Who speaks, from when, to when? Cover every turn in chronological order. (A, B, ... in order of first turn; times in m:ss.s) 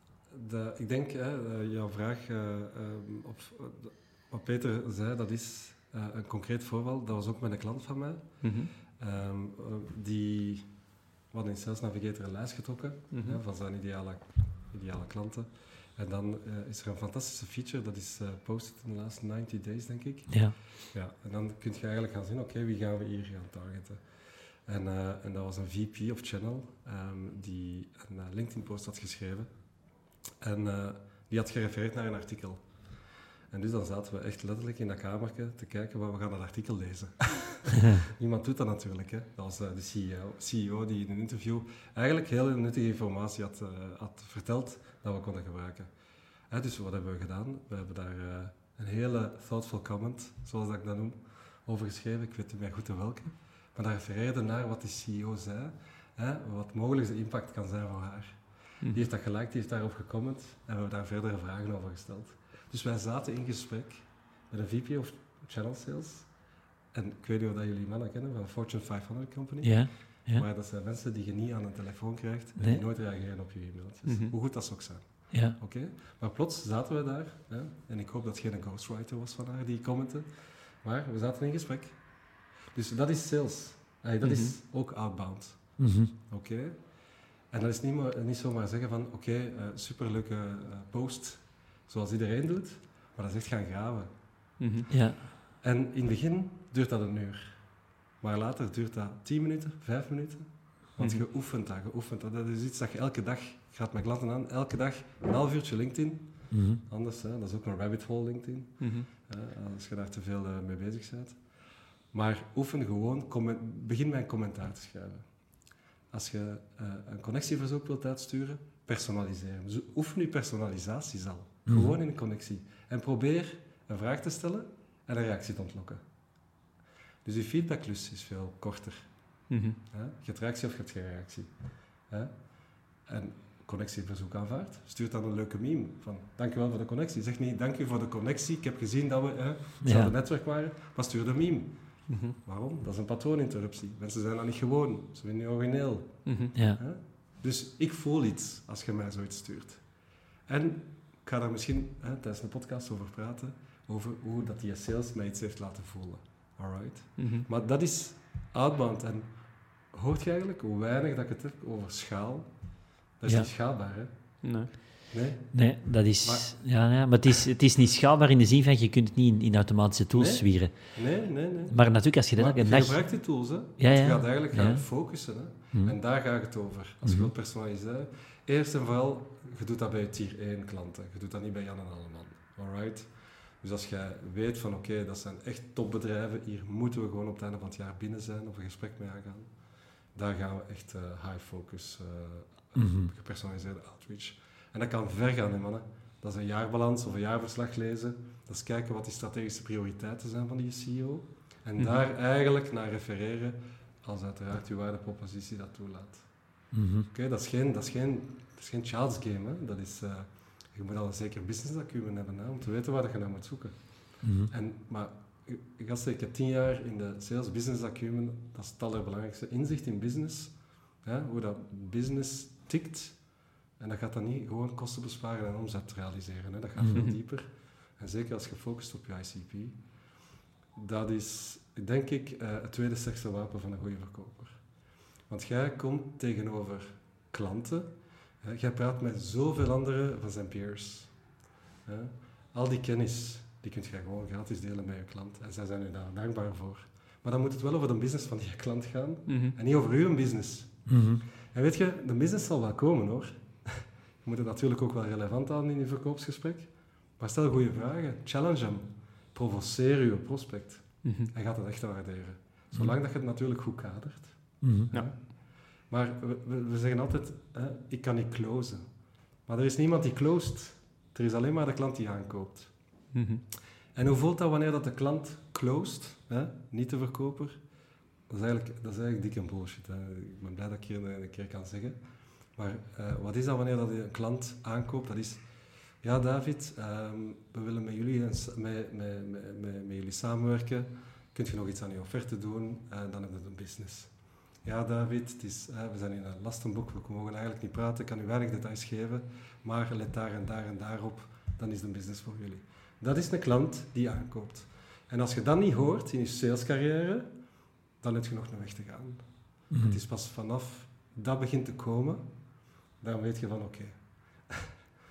0:00.3-0:45.9 A
0:08.4-0:08.7 B
0:13.1-0:13.4 B
0:20.3-0:20.5 C
0:46.4-1:34.2 A
1:09.6-1:10.4 C
1:12.6-1:12.8 C
1:14.0-1:14.3 B
1:15.3-1:15.6 C
1:24.2-1:24.5 B
1:25.8-1:26.1 C
1:34.6-1:34.9 B
1:34.9-1:35.3 C
1:35.6-2:06.0 A
1:41.0-1:41.2 B
1:46.5-1:46.8 C
1:48.8-1:49.1 B
2:01.7-2:02.0 C
2:07.2-2:46.6 A
2:09.5-2:09.8 B
2:19.8-2:20.1 C
2:22.1-2:22.4 B
2:26.2-2:26.5 B
2:26.5-2:26.8 C
2:37.2-2:37.4 B
2:44.4-2:44.7 B
2:45.5-2:53.2 C
2:50.1-3:50.0 A
2:53.8-2:56.0 C
2:57.0-2:57.3 C
3:12.8-3:13.1 C
3:21.8-3:22.0 B
3:26.7-3:27.1 C
3:34.2-3:34.5 C
3:46.8-3:47.0 C
3:46.8-3:47.2 B
3:50.7-4:01.3 A
4:01.8-4:33.0 A
4:09.3-4:09.5 B
4:10.9-4:11.2 C
4:21.0-4:21.3 B
4:24.6-4:24.9 C
4:24.9-4:25.2 B
4:33.1-4:33.4 B
4:33.9-4:37.7 A
4:38.3-5:14.7 A
5:09.7-5:10.0 C